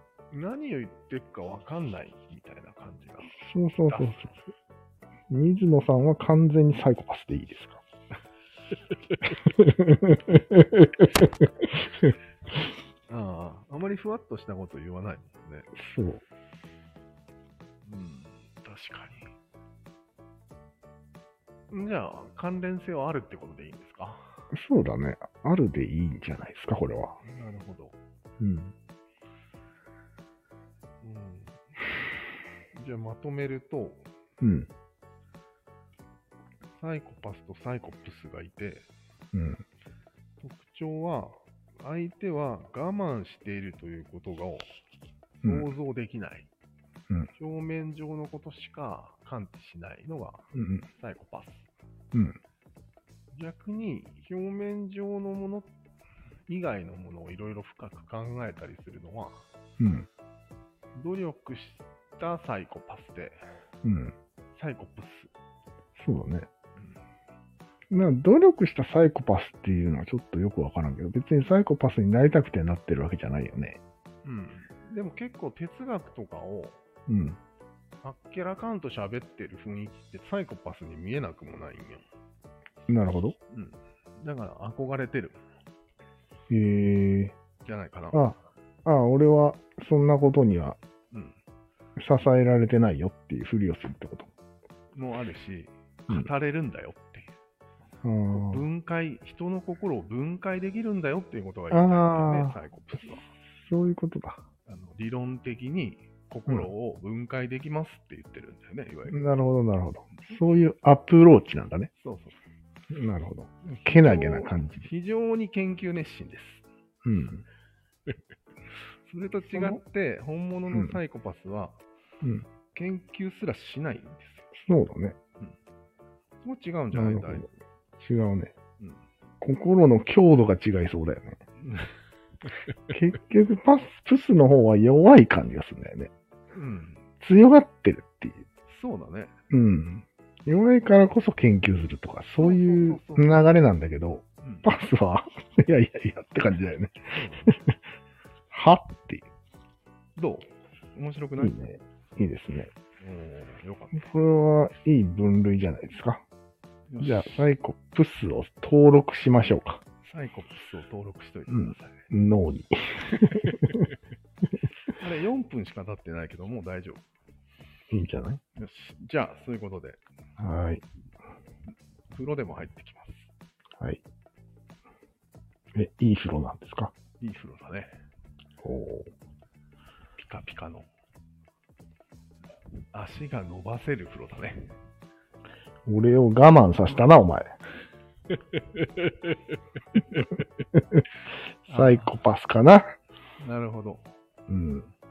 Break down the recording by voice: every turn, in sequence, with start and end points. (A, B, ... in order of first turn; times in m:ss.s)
0:00.3-0:04.4 A
0:03.3-0:04.4 B
0:05.3-0:07.8 B
0:09.4-0:11.4 B
0:13.1-0:15.7 A
0:15.7-0:16.2 B
0:17.8-0:19.3 A
0:21.7-0:24.4 A
0:24.5-0:27.2 B
0:27.2-0:28.0 A
0:28.4-0:28.7 B
0:31.0-0:31.6 A
0:32.7-0:34.1 A
0:34.4-0:34.7 B
0:36.8-0:38.9 A
0:39.3-0:39.6 B
0:40.4-0:44.7 A
0:45.4-0:45.7 B
0:45.4-0:46.5 A
0:47.4-0:51.7 A
0:50.5-0:50.8 B
0:52.1-0:52.4 B
0:53.3-0:55.7 A
0:56.5-0:59.4 A
0:59.8-1:00.1 B
1:00.9-1:03.4 A
1:03.8-1:04.1 B
1:04.5-1:05.3 A
1:06.0-1:06.5 B
1:07.9-1:13.8 B
1:14.2-1:16.8 A
1:17.1-1:17.4 B
1:18.0-1:22.1 A
1:22.9-1:23.4 B
1:23.5-1:25.4 A
1:26.5-1:27.3 B
1:27.6-1:28.2 A
1:28.1-1:30.8 B
1:31.1-1:31.4 A
1:32.0-1:34.3 B
1:34.9-1:37.3 A
1:38.0-1:38.6 B
1:38.3-1:43.3 A
1:41.7-1:42.6 B
1:43.6-1:44.4 B
1:44.6-1:49.2 A
1:49.1-1:51.9 B
1:52.0-1:52.4 A
1:52.9-1:54.9 B
1:53.6-1:56.6 A
1:57.0-1:57.4 B
1:59.0-2:01.8 A
1:59.4-1:59.8 B
2:00.7-2:01.0 B
2:02.2-2:02.5 B
2:02.7-2:04.5 A
2:04.5-2:05.2 B
2:06.4-2:07.5 A
2:06.9-2:07.4 B
2:08.0-2:08.5 B
2:09.4-2:11.4 B
2:11.6-2:11.9 A
2:12.9-2:16.1 B
2:16.5-2:17.0 A
2:17.2-2:18.4 B
2:18.6-2:19.3 A
2:19.5-2:27.8 B
2:22.4-2:23.6 A
2:24.4-2:24.7 A
2:27.1-2:27.6 A
2:28.5-2:29.3 B
2:30.2-2:31.8 A
2:31.4-2:32.7 B
2:33.0-2:34.1 A
2:33.9-2:36.2 B
2:36.9-2:37.4 A
2:37.0-2:39.8 B
2:40.0-2:42.1 A
2:41.5-2:43.7 B
2:43.4-2:43.7 A
2:45.0-2:47.0 A
2:47.9-2:48.4 B
2:48.5-2:50.0 A
2:50.4-2:50.8 B
2:52.1-2:53.3 A
2:55.7-2:56.9 B
2:57.2-2:58.0 A
2:58.6-2:59.1 B
3:00.2-3:00.9 A
3:02.9-3:04.8 A
3:05.8-3:07.5 B
3:08.5-3:09.4 A
3:09.9-3:10.4 A
3:10.7-3:11.0 B
3:11.6-3:12.9 B
3:11.7-3:12.2 A
3:13.4-3:14.0 A
3:14.5-3:14.9 B